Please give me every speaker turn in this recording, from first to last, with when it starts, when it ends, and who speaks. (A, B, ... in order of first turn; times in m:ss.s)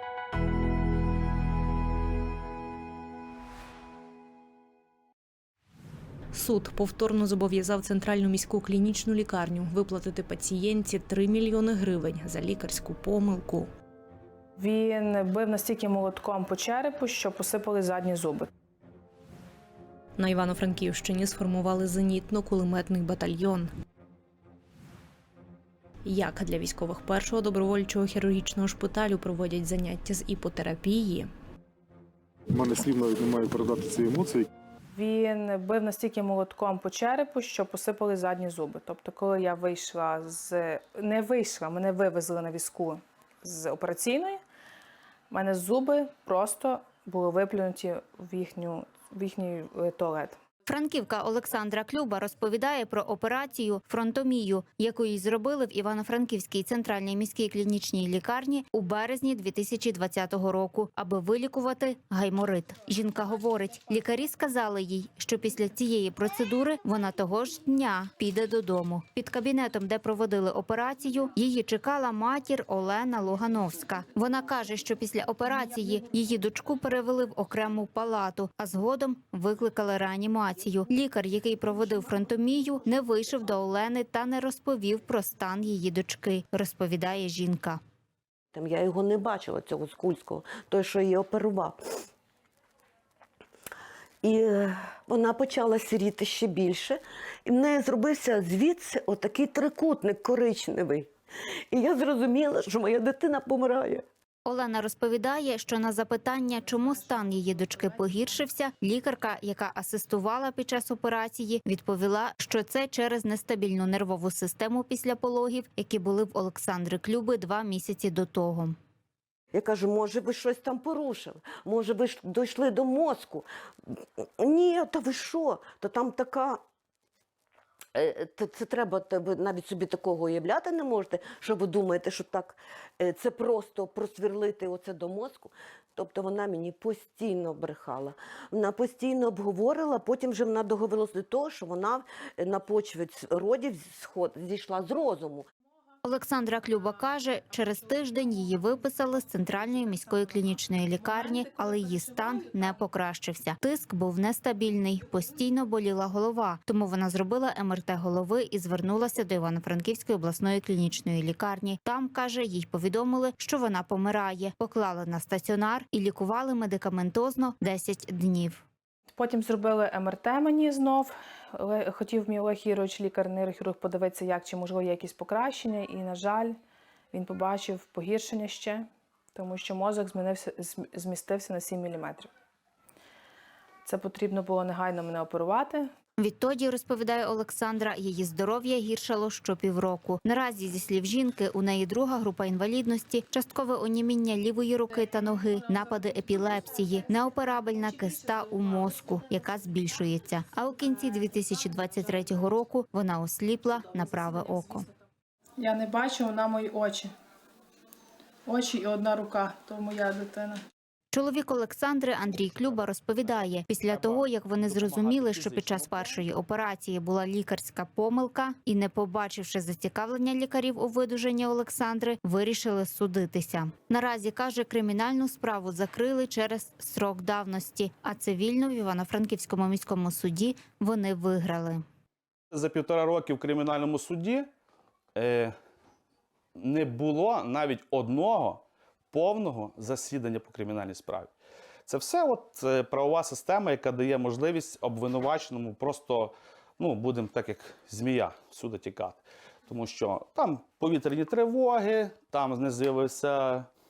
0:06.3-0:13.7 A
0:14.6-0:18.5 B
0:20.2-0:23.7 A
0:26.0-0:31.3 A
0:32.5-0:34.5 C
0:34.9-0:44.4 B
0:45.3-0:50.4 B
0:50.7-1:27.8 D
1:28.5-1:31.8 E
1:34.2-1:41.1 E
1:41.7-1:44.0 E
1:44.4-1:58.8 D
1:59.5-2:06.6 E
2:08.0-2:25.5 E
2:26.0-2:48.6 D
2:49.1-2:56.6 B
2:57.1-3:02.3 B
3:03.8-3:05.9 B
3:06.2-3:24.9 D
3:25.6-3:27.1 B
3:28.5-3:30.6 B
3:31.1-3:51.8 D
3:52.5-3:54.5 F
3:55.2-3:55.6 F
3:56.6-4:01.3 F
4:01.9-4:13.7 F